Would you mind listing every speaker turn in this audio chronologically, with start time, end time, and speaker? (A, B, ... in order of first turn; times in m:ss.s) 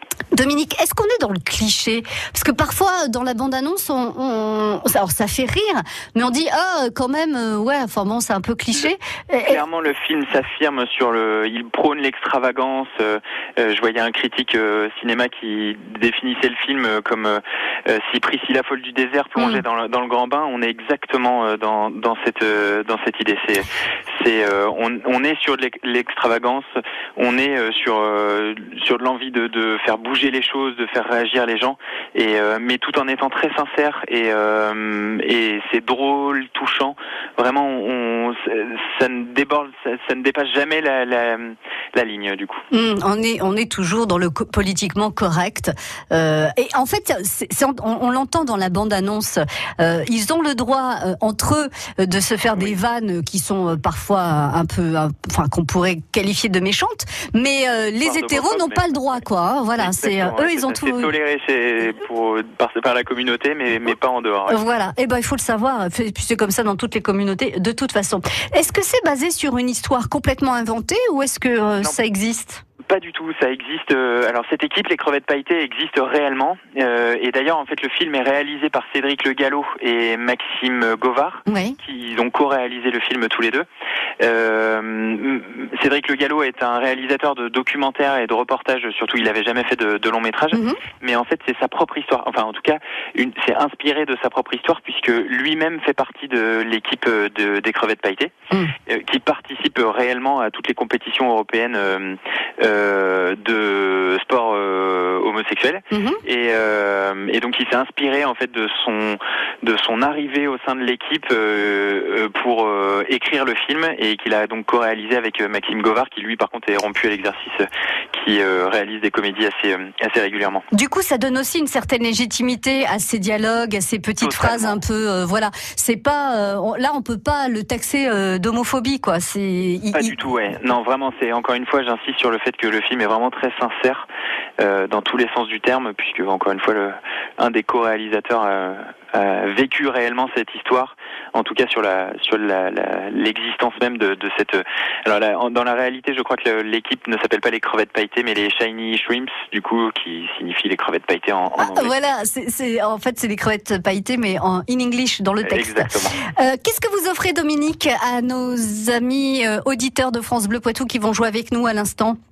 0:00.3-0:09.6 A
0:09.4-0:42.6 B
0:19.4-0:19.6 A
0:42.7-1:01.1 A
0:58.0-0:59.2 B
0:59.8-1:04.6 B
1:04.5-1:12.6 A
1:12.9-1:23.7 B
1:21.5-1:21.8 A
1:24.2-1:38.3 B
1:30.5-1:30.8 A
1:38.9-2:00.6 B
1:45.9-1:46.2 A
2:00.7-2:10.2 A
2:04.2-2:04.8 B
2:09.9-2:14.1 B
2:14.6-2:31.9 B
2:31.6-2:42.2 A
2:35.4-2:36.2 B